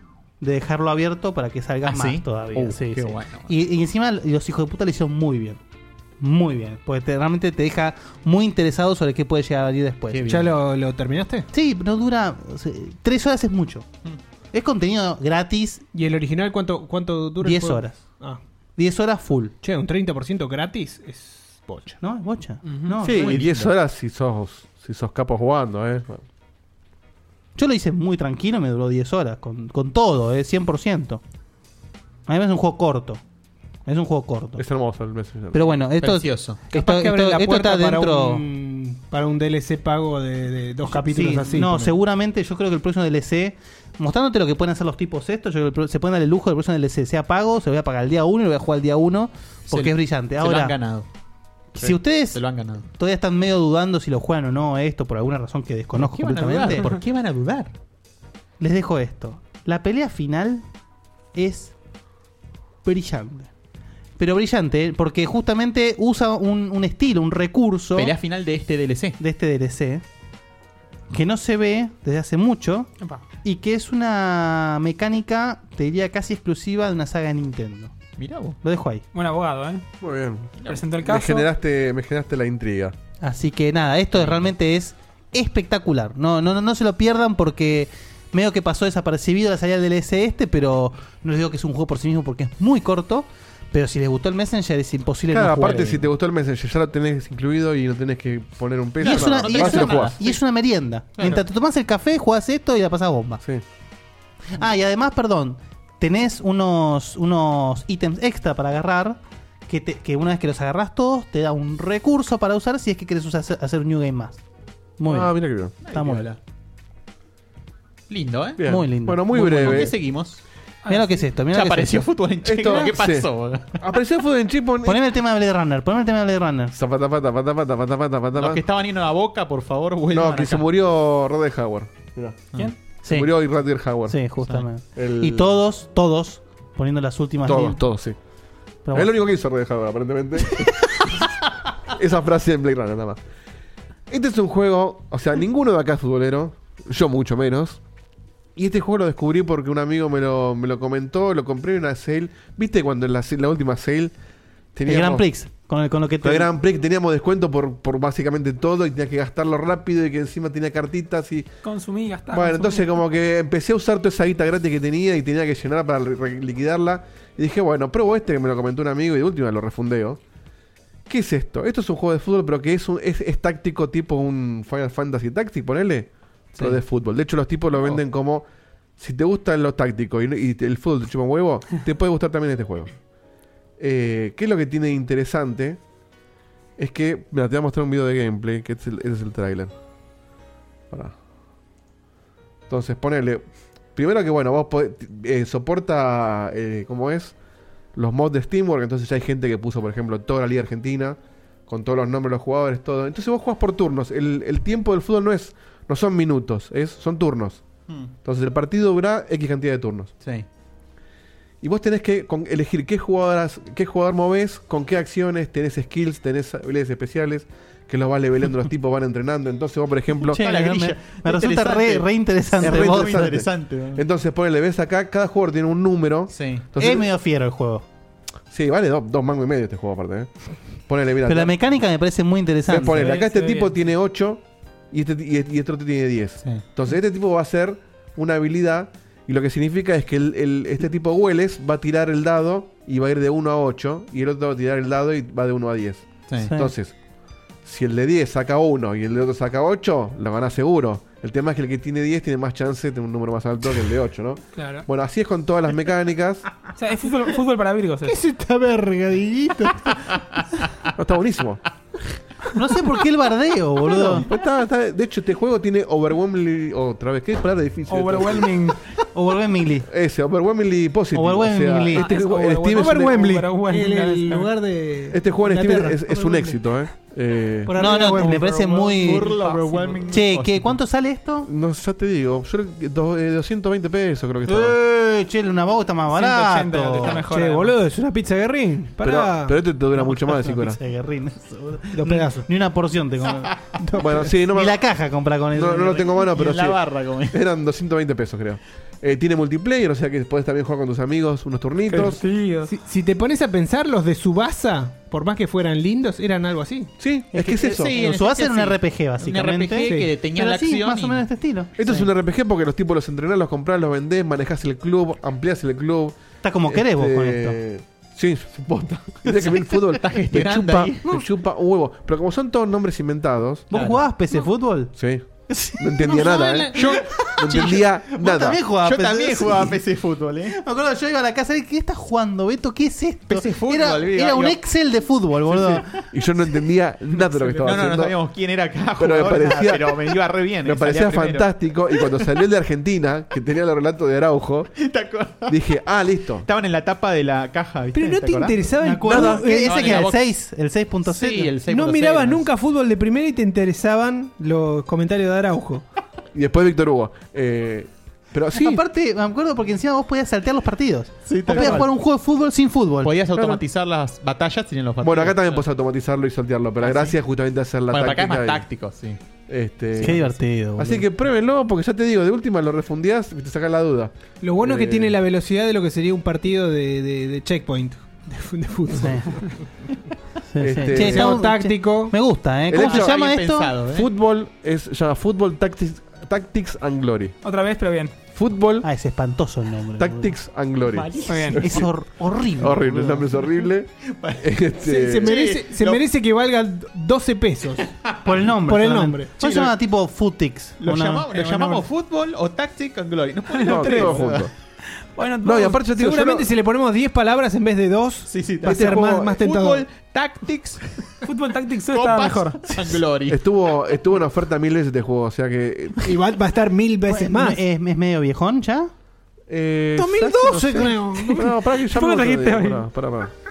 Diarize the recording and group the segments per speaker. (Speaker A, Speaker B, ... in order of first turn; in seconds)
Speaker A: 0.4-5.6, 6.2-10.3, 11.5-13.9, 14.5-15.8, 17.4-18.0, 18.8-19.5, 22.0-23.4, 27.6-31.2, 32.3-33.2, 33.9-34.6, 35.5-38.4, 40.9-50.8, 51.7-56.9, 58.6-60.6, 61.3-61.7, 62.8-63.5, 64.2-68.1, 69.2-70.0, 71.1-72.9, 73.4-78.0, 78.6-79.0, 83.2-96.0, 99.0-103.4, 104.5-114.4, 115.0-115.3, 115.9-116.3, 118.6-119.8, 120.9-122.1, 124.8-126.7, 133.0-133.3, 134.1-137.8, 138.8-139.1, 154.8-156.5, 220.2-223.3, 226.8-227.8, 231.2-233.2, 246.4-246.7, 262.5-264.3, 269.1-269.9, 271.1-272.1, 277.8-279.3, 280.1-281.5, 284.4-287.2, 290.0-293.6, 294.5-296.1, 307.3-312.1, 316.4-317.6, 323.7-324.9, 328.2-329.8, 330.6-335.8, 348.8-351.6, 358.5-363.5, 370.0-371.0, 378.9-379.3, 380.5-383.7, 388.8-390.3, 391.6-393.2, 398.2-401.3, 417.1-418.9
Speaker B: 1.8-3.5, 10.1-10.5, 23.1-23.7, 36.0-36.7, 49.7-51.1, 52.3-52.9, 55.9-57.7, 67.9-69.2, 78.2-78.6, 84.1-84.5, 99.0-100.4, 115.8-116.4, 118.1-118.6, 119.3-120.4, 121.5-123.7, 128.3-130.6, 220.3-222.1, 222.6-224.0, 226.3-226.7, 246.3-246.5, 278.2-280.8, 296.1-297.4, 307.5-311.3, 319.3-321.1, 323.7-324.1, 326.7-330.6, 333.3-334.6, 337.5-341.5, 344.8-345.6, 346.4-348.6, 349.6-350.2, 351.1-352.5, 361.2-361.9, 363.0-365.6, 366.8-367.1, 367.9-369.2, 382.7-384.1, 390.9-391.7, 394.1-394.4, 395.2-396.0, 398.0-398.2, 399.4-399.7, 400.8-404.5, 408.3-410.8, 411.9-413.4
Speaker C: 10.2-11.5, 15.9-18.4, 19.6-21.9, 36.7-41.9, 258.0-259.9, 272.7-276.6, 277.7-280.1, 287.2-289.6, 291.9-292.4, 293.8-294.3, 302.6-306.9, 309.8-310.1, 326.0-326.9, 347.9-350.0, 351.7-355.8, 374.4-379.5, 380.9-382.1, 394.8-397.9, 398.6-399.4, 405.9-409.9, 416.0-417.6, 419.9-421.5
Speaker D: 22.6-23.0, 79.1-79.8, 80.7-81.5, 120.8-121.1, 161.6-162.9, 232.9-233.7, 254.6-254.8, 256.8-258.1, 267.9-268.8, 271.9-274.5, 286.1-287.8, 301.9-302.7, 387.4-388.1, 391.2-391.6, 403.5-404.1, 405.1-405.9, 411.2-412.6, 421.3-422.8
Speaker E: 23.0-26.2, 34.6-35.7, 80.0-82.9, 95.3-100.2, 115.1-115.7, 118.6-119.9, 122.4-123.3, 123.8-125.0, 126.7-128.6, 130.1-132.5, 133.1-134.2, 134.9-135.5, 137.4-138.2, 138.9-140.7, 141.9-143.2, 144.1-147.8, 148.6-154.1, 154.7-155.2, 156.2-161.5, 162.3-170.2, 171.1-178.4, 179.0-182.9, 183.8-185.8, 186.8-189.7, 192.7-193.4, 193.9-197.3, 197.9-207.6, 208.2-210.1, 211.6-220.4, 222.6-227.1, 228.5-230.3, 230.9-231.5, 232.7-246.9, 247.6-256.4, 261.0-261.6, 264.0-268.6, 269.9-273.2, 275.1-277.8, 281.4-284.8, 289.0-290.8, 294.0-294.8, 295.5-296.8, 297.3-302.2, 307.0-307.9, 311.8-323.7, 324.9-325.2, 325.8-328.6, 336.1-338.1, 339.0-340.0, 340.6-344.7, 345.5-346.5, 349.1-349.4, 356.3-358.8, 365.0-368.6, 369.5-375.1, 380.6-381.4, 382.7-383.1, 383.9-387.3, 388.3-388.9, 390.0-391.9, 392.6-395.3, 403.6-404.5, 405.4-406.4, 408.7-409.2, 413.3-416.0, 419.5-423.3